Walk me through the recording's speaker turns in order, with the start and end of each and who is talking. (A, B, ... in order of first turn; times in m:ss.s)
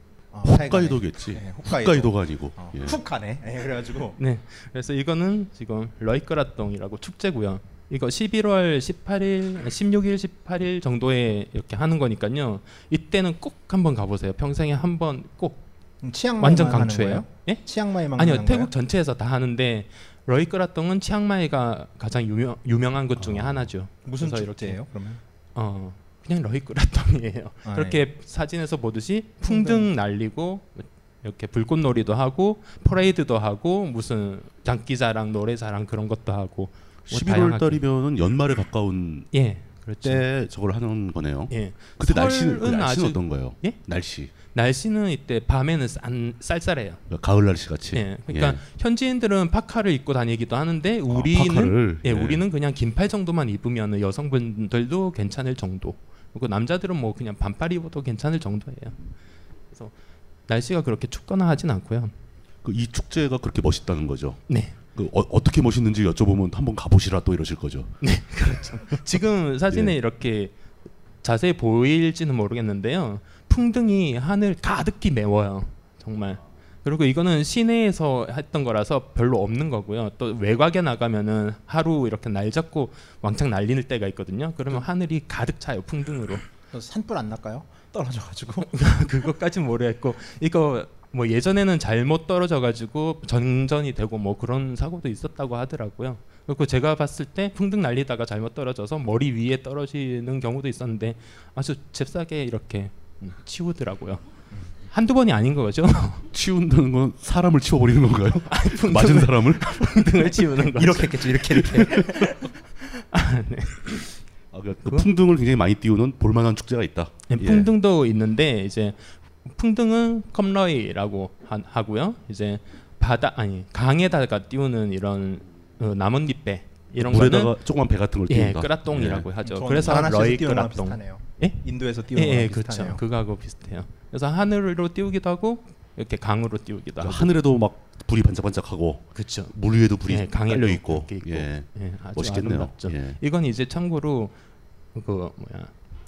0:00.3-0:04.2 A
0:00.4-0:03.0 B
0:04.2-0:15.6 C
0:16.0-0:18.7 A
0:16.4-0:24.8 C
0:23.3-0:25.2 A
0:25.6-0:37.8 C
0:27.7-0:28.0 A
0:29.4-0:29.9 A
0:37.1-0:39.3 B
0:39.3-0:40.2 C
0:40.0-0:44.3 B
0:41.5-0:43.8 C
0:44.3-0:47.0 C
0:47.1-0:48.6 B
0:47.9-0:59.0 C
0:51.1-0:52.4 B
1:00.5-1:02.1 C
1:02.6-1:07.9 B
1:04.5-1:04.8 C
1:08.0-1:10.5 C
1:09.7-1:10.0 B
1:11.2-1:26.4 C
1:26.7-1:28.7 A
1:28.7-1:44.2 C
1:44.9-1:46.3 C
1:46.3-1:50.0 B
1:48.5-1:51.1 C
1:50.6-1:52.4 A
1:51.8-1:54.2 C
1:54.5-1:57.7 B
1:57.3-2:07.6 C
2:07.0-2:09.3 B
2:08.3-2:11.6 C
2:09.4-2:13.0 A
2:12.1-2:17.4 C
2:17.0-2:23.2 B
2:19.2-2:24.4 C
2:24.9-2:25.7 C